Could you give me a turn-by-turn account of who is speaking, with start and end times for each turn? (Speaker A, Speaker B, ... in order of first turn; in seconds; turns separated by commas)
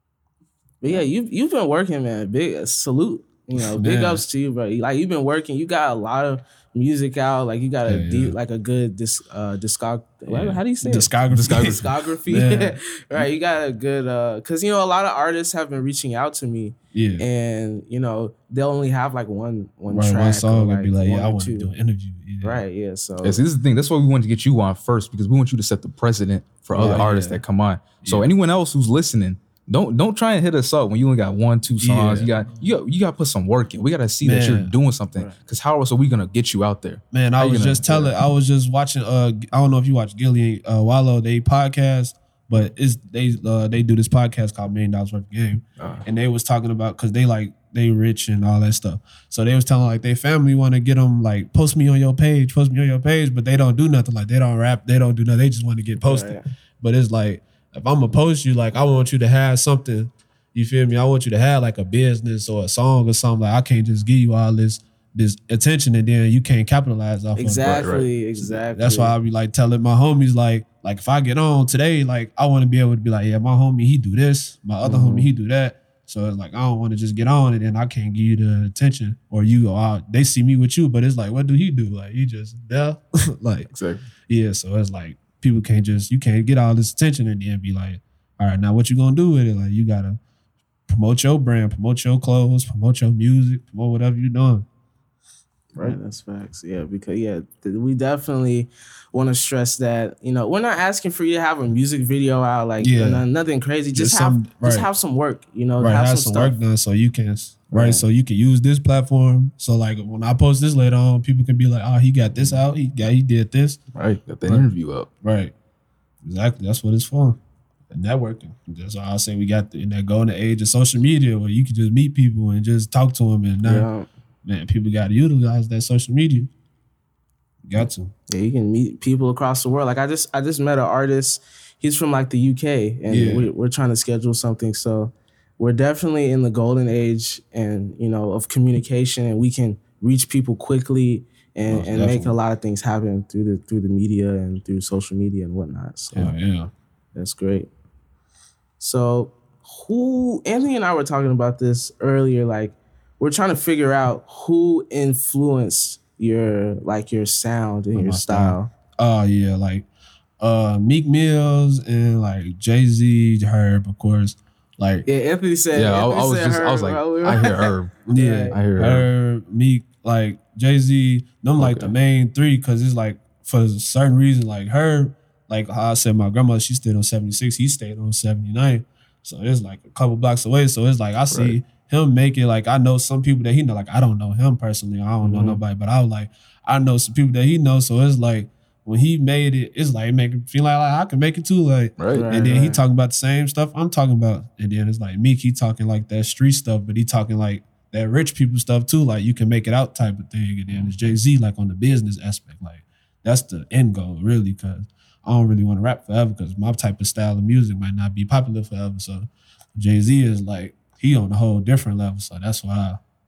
Speaker A: 0.8-21.7, Speaker B: 3.6-4.2, Speaker B: 7.9-8.3, Speaker B: 10.3-13.3, Speaker C: 11.3-11.9, Speaker B: 16.9-17.2, Speaker B: 19.9-22.6, Speaker A: 22.4-23.4, Speaker C: 23.2-38.1, Speaker B: 26.7-27.4, Speaker B: 28.0-28.3, Speaker B: 31.8-32.3, Speaker B: 34.2-34.7, Speaker B: 37.1-67.9, Speaker C: 45.8-46.0, Speaker A: 56.0-56.4, Speaker A: 67.4-69.1, Speaker C: 67.6-68.0, Speaker B: 68.4-83.7, Speaker A: 74.8-75.3, Speaker C: 83.7-84.0, Speaker B: 84.3-90.2, Speaker B: 90.9-94.7, Speaker A: 95.8-106.6, Speaker B: 102.8-103.2, Speaker B: 103.9-104.9, Speaker B: 105.8-113.8, Speaker A: 107.7-108.0, Speaker C: 113.9-115.1, Speaker B: 115.2-115.5, Speaker B: 116.2-117.4, Speaker B: 117.9-123.9, Speaker A: 123.6-124.1, Speaker B: 124.4-126.5, Speaker B: 127.7-128.1, Speaker A: 128.3-146.3, Speaker B: 133.1-133.5, Speaker B: 141.7-142.4, Speaker B: 146.1-146.7, Speaker A: 147.1-147.7, Speaker A: 148.8-158.7, Speaker B: 157.9-159.9, Speaker B: 160.4-165.1, Speaker A: 165.1-168.6, Speaker C: 165.7-169.1, Speaker B: 168.1-213.0, Speaker C: 171.6-171.9, Speaker C: 181.3-181.6, Speaker A: 185.2-185.6, Speaker C: 192.0-192.2, Speaker A: 192.1-192.8